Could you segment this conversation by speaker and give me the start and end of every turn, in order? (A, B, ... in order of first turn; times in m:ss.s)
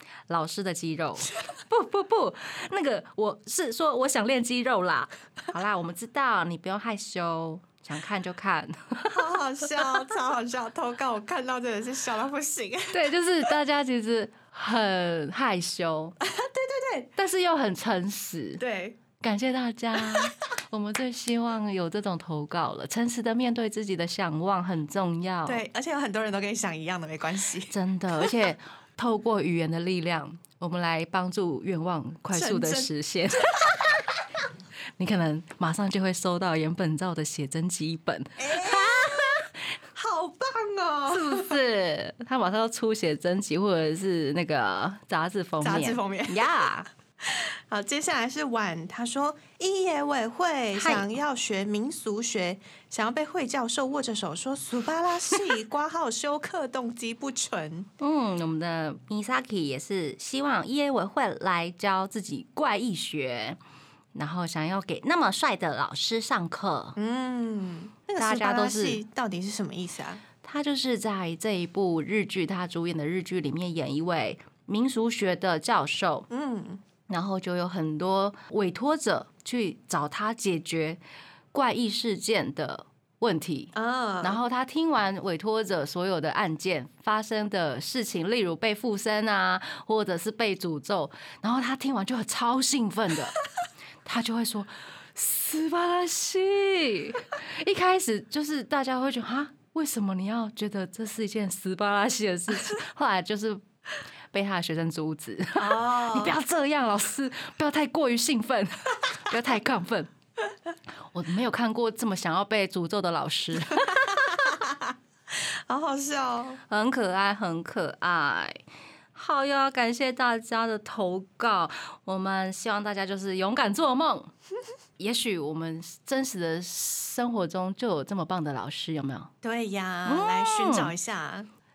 0:00.3-0:09.2 A
0:09.1-0:13.1 B
0:12.9-0:16.2 A
0:16.2-0:17.1 B
0:17.2-0:18.6 A
0:18.6-0:19.0 B
0:19.2-0:25.6 A
0:25.4-0:28.3 B
0:27.7-0:34.0 A
0:32.3-0:32.9 B
0:35.0-0:39.4 A
0:38.4-0:39.4 B
0:39.9-0:41.6 B
0:41.1-0:46.9 A
0:45.6-0:46.7 B
0:47.2-0:57.9 B
0:50.7-0:51.1 A
0:58.0-1:03.6 A
1:04.1-1:07.0 A
1:07.0-1:10.2 B
1:08.2-1:09.0 A
1:10.4-1:16.3 A
1:16.3-1:16.8 B
1:17.1-1:21.0 A
1:21.5-1:33.4 A
1:23.7-1:24.4 B
1:34.0-1:43.6 A
1:44.3-1:50.1 A
1:45.6-1:46.4 B
1:51.1-1:54.2 A
1:53.8-1:56.6 B
1:56.7-1:58.6 A
1:59.1-2:04.3 A
2:05.0-2:09.3 A
2:09.4-2:11.5 B
2:10.0-2:10.9 A